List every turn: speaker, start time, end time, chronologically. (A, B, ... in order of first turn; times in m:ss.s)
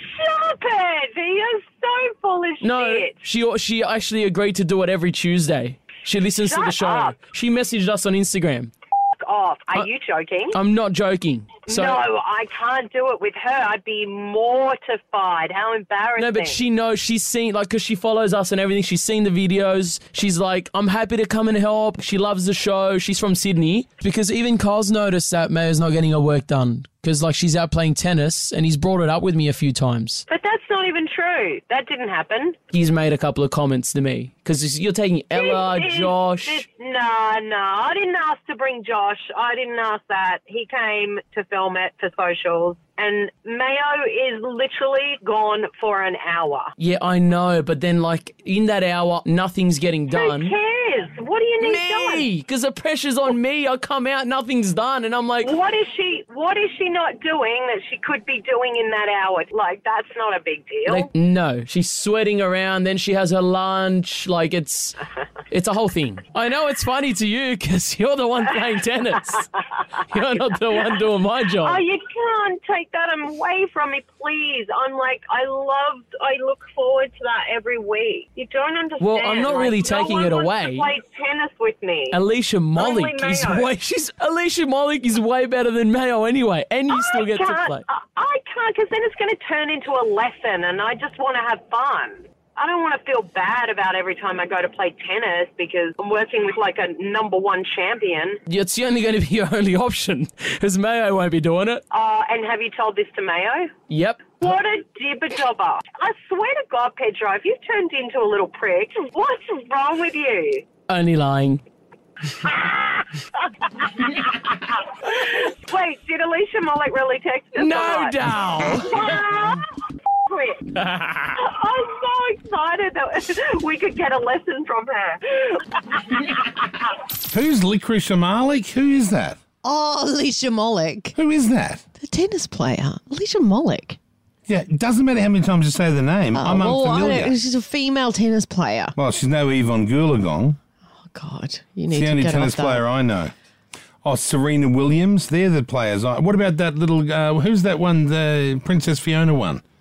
0:00.2-0:03.1 A
0:02.6-0:08.7 B
0:06.4-0:07.1 A
0:09.2-0:10.5 A
0:10.5-0:12.0 B
0:11.7-0:16.6 A
0:16.2-0:30.2 B
0:30.3-0:32.5 A
0:30.6-0:30.9 C
0:32.7-0:36.6 B
0:35.4-0:35.8 C
0:35.5-0:36.1 A
0:36.7-0:46.7 A
0:41.4-0:41.9 C
0:46.8-0:50.5 B
0:50.2-0:52.2 A
0:51.6-0:55.5 B
0:55.4-1:01.0 A
1:00.8-1:11.8 B
1:11.6-1:22.1 A
1:19.0-1:20.9 B
1:22.1-1:27.8 B
1:22.8-1:23.6 A
1:27.2-1:27.8 A
1:28.3-1:32.1 A
1:32.6-1:37.0 A
1:33.7-1:34.0 C
1:35.4-1:38.2 C
1:37.6-1:38.2 A
1:38.5-1:41.8 B
1:41.9-1:43.6 A
1:43.9-1:44.3 B
1:44.4-1:50.6 A
1:50.9-1:51.6 B
1:52.4-1:53.2 A
1:53.8-1:58.1 A
1:57.5-1:59.0 B
1:58.8-1:59.6 A
2:00.3-2:00.6 A
2:00.8-2:01.3 B
2:01.4-2:06.7 A
2:07.3-2:09.4 D
2:09.6-2:11.1 C
2:11.1-2:11.8 D
2:12.0-2:14.0 C
2:14.5-2:17.3 D
2:16.3-2:18.9 C
2:19.0-2:20.6 D
2:21.1-2:22.8 C
2:21.9-2:23.3 D
2:24.0-2:29.6 D